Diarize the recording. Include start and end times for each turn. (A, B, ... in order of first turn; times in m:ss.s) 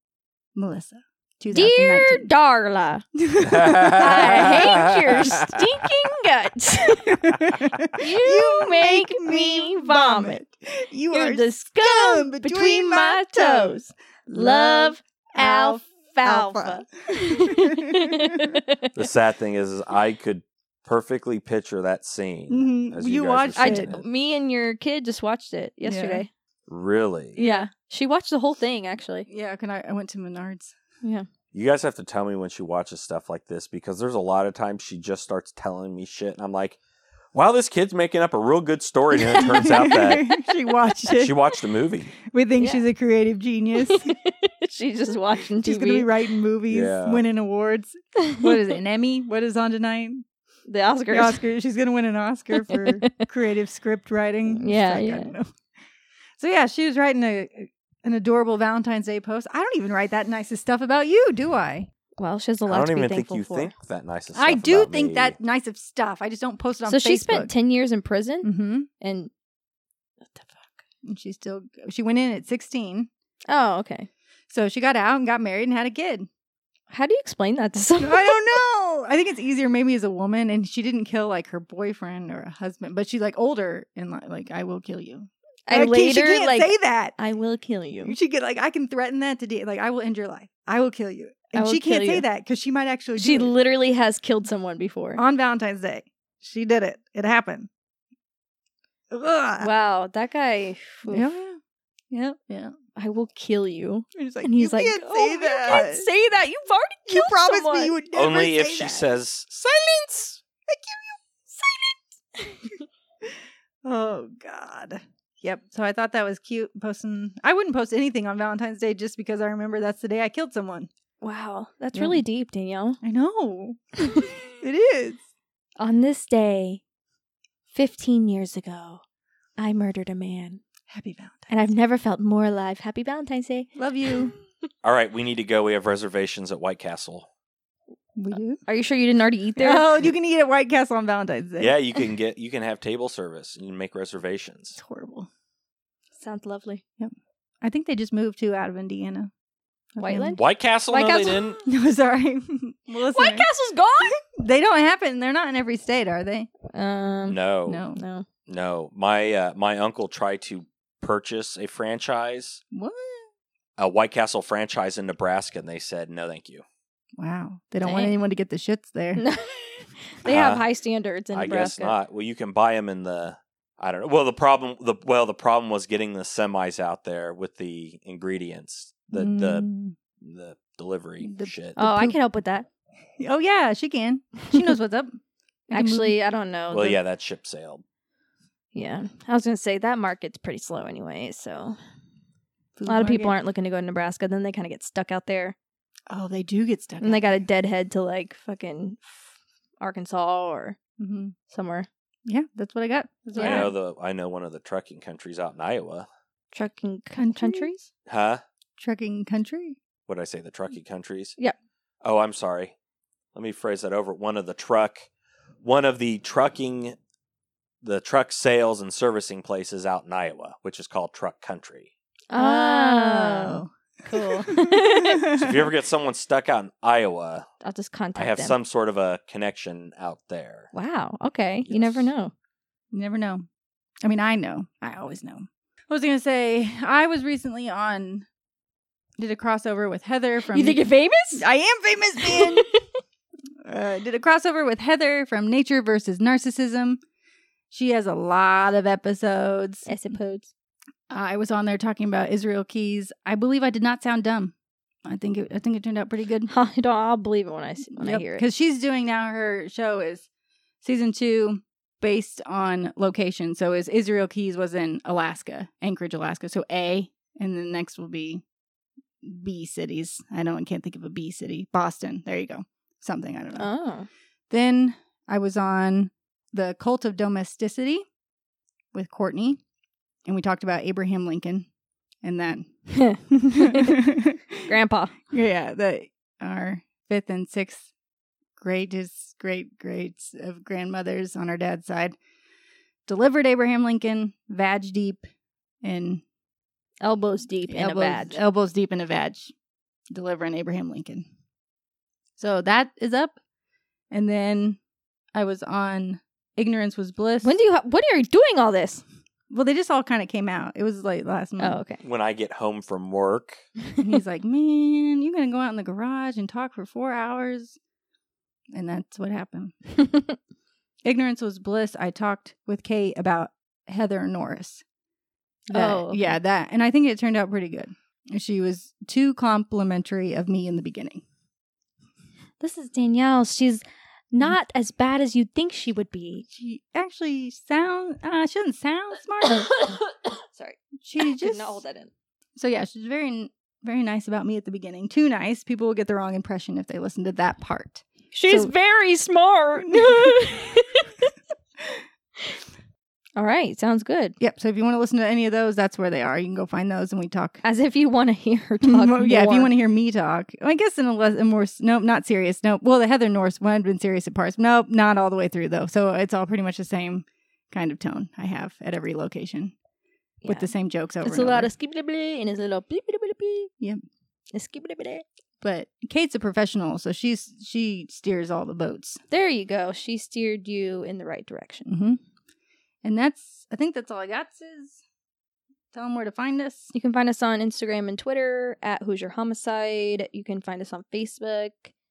0:00.5-0:02.3 A
0:01.5-0:03.0 B
0:03.2-0:05.3 A
0:03.4-0:05.3 C
0:04.0-0:07.2 B
0:06.9-0:18.5 A
0:08.0-0:10.4 B
0:11.1-0:19.0 B
0:19.0-0:24.0 C
0:22.5-0:23.9 A
0:23.6-0:26.3 B
0:25.8-0:26.2 A
0:26.7-0:27.4 C
0:27.3-0:29.3 B
0:27.4-0:27.7 A
0:29.3-0:30.7 A
0:31.5-0:36.8 C
0:37.3-0:40.3 C
0:39.3-0:41.4 A
0:41.1-0:42.2 C
0:42.3-0:44.1 A
0:42.6-0:42.8 B
0:43.8-0:46.1 B
0:45.6-0:50.2 A
0:46.7-0:47.2 C
0:50.7-0:51.4 B
0:51.1-0:55.5 A
0:52.7-0:53.2 B
0:54.5-0:55.3 B
0:56.4-1:01.9 A
1:02.2-1:03.7 B
1:02.6-1:05.4 C
1:04.3-1:07.5 A
1:06.9-1:09.3 B
1:08.4-1:08.9 A
1:10.2-1:10.7 B
1:11.0-1:13.1 A
1:13.5-1:14.1 B
1:14.5-1:16.3 A
1:16.9-1:18.6 B
1:18.0-1:27.1 A
1:25.7-1:28.2 B
1:28.0-1:33.5 A
1:31.5-1:32.2 B
1:33.2-1:35.2 B
1:35.2-1:37.7 A
1:39.1-1:39.7 A
1:39.6-1:41.4 B
1:41.1-1:41.6 A
1:42.1-1:42.7 A
1:43.0-1:47.9 B
1:44.1-1:46.1 A
1:47.1-1:51.9 A
1:48.1-1:49.5 C
1:52.4-1:52.7 B
1:53.8-2:00.9 A
2:01.2-2:03.0 B
2:01.9-2:02.2 A
2:03.0-2:05.2 A
2:05.8-2:06.8 B
2:07.7-2:09.0 B
2:09.6-2:10.6 B
2:10.9-2:11.6 A
2:11.5-2:13.7 B
2:13.8-2:14.3 A
2:14.8-2:17.3 C
2:18.2-2:18.6 A
2:18.6-2:19.9 B
2:19.6-2:21.7 A
2:21.6-2:24.8 C
2:24.7-2:25.3 A
2:26.2-2:26.8 B
2:27.0-2:29.3 A
2:30.0-2:30.4 A
2:30.0-2:31.6 B
2:30.4-2:31.6 C
2:31.6-2:33.5 A
2:33.1-2:34.2 B
2:34.0-2:36.5 A
2:36.7-2:37.4 B
2:37.3-2:37.8 C
2:37.7-2:38.0 A
2:37.9-2:38.2 B
2:38.5-2:42.6 C
2:42.7-2:43.3 A
2:43.8-2:46.6 C
2:47.2-2:49.2 A
2:47.8-2:48.2 B
2:49.2-2:51.9 B
2:50.2-2:50.6 C
2:51.3-3:01.9 C
2:59.1-2:59.9 A
3:01.2-3:02.2 A
3:01.8-3:02.7 B
3:03.2-3:06.2 A
3:05.7-3:07.0 B
3:06.7-3:07.8 C
3:08.7-3:11.8 B
3:12.8-3:13.4 A
3:12.8-3:15.6 B
3:16.1-3:17.4 A
3:17.0-3:20.8 B
3:21.0-3:21.4 A
3:21.5-3:21.9 B
3:22.2-3:23.7 A
3:23.4-3:23.7 B
3:23.4-3:26.1 C
3:26.5-3:27.9 B
3:27.1-3:27.8 A
3:28.0-3:28.4 C
3:28.8-3:29.8 A
3:30.1-3:31.4 C
3:32.0-3:32.7 C
3:33.3-3:35.1 C
3:35.6-3:37.0 C
3:37.8-3:41.9 C
3:42.3-3:45.2 B
3:42.3-3:45.7 A
3:45.4-3:47.5 C
3:47.6-3:48.6 B
3:48.1-3:50.7 C
3:50.7-3:52.3 B
3:51.6-3:52.1 C
3:52.9-3:53.4 A
3:54.0-3:58.3 A
3:59.2-4:02.7 A
4:00.5-4:01.4 B
4:02.2-4:02.8 B
4:03.6-4:07.0 A
4:07.7-4:09.9 A
4:09.8-4:10.5 B
4:11.1-4:16.5 A
4:16.5-4:18.4 B
4:17.9-4:20.3 A
4:20.8-4:28.4 A
4:29.2-4:33.7 A
4:33.6-4:34.1 B
4:34.5-4:38.0 A
4:38.9-4:39.6 A
4:40.2-4:41.7 A
4:42.2-4:42.7 A
4:42.9-4:44.0 B
4:43.3-4:44.7 A
4:44.7-4:45.2 B
4:45.3-4:47.9 A
4:48.6-4:52.2 A
4:53.0-4:55.3 A
4:55.8-4:56.2 A
4:57.0-4:58.4 B
4:57.7-4:59.5 A
5:00.1-5:01.2 A
5:02.4-5:03.4 A
5:04.1-5:04.8 A
5:05.3-5:07.6 A
5:07.4-5:09.0 B
5:09.5-5:11.8 A
5:11.6-5:12.0 B
5:12.0-5:13.6 C
5:14.0-5:17.8 A
5:18.7-5:19.7 A
5:20.0-5:20.3 B
5:21.0-5:24.8 A
5:25.7-5:31.2 A
5:25.7-5:26.4 B
5:32.6-5:36.4 B
5:36.4-5:40.0 A
5:40.6-5:41.8 A
5:41.4-5:42.1 B
5:42.6-5:48.7 A
5:48.3-5:51.1 B
5:49.8-5:50.5 A
5:53.4-5:54.3 B
5:54.4-5:57.6 A
5:57.6-5:59.7 B
5:58.8-6:09.7 A
6:10.4-6:11.7 A
6:10.4-6:13.7 B
6:14.5-6:15.2 B
6:15.6-6:19.2 A
6:19.3-6:21.9 B
6:21.8-6:22.2 A
6:23.0-6:25.0 A
6:25.9-6:26.9 A
6:26.9-6:31.9 B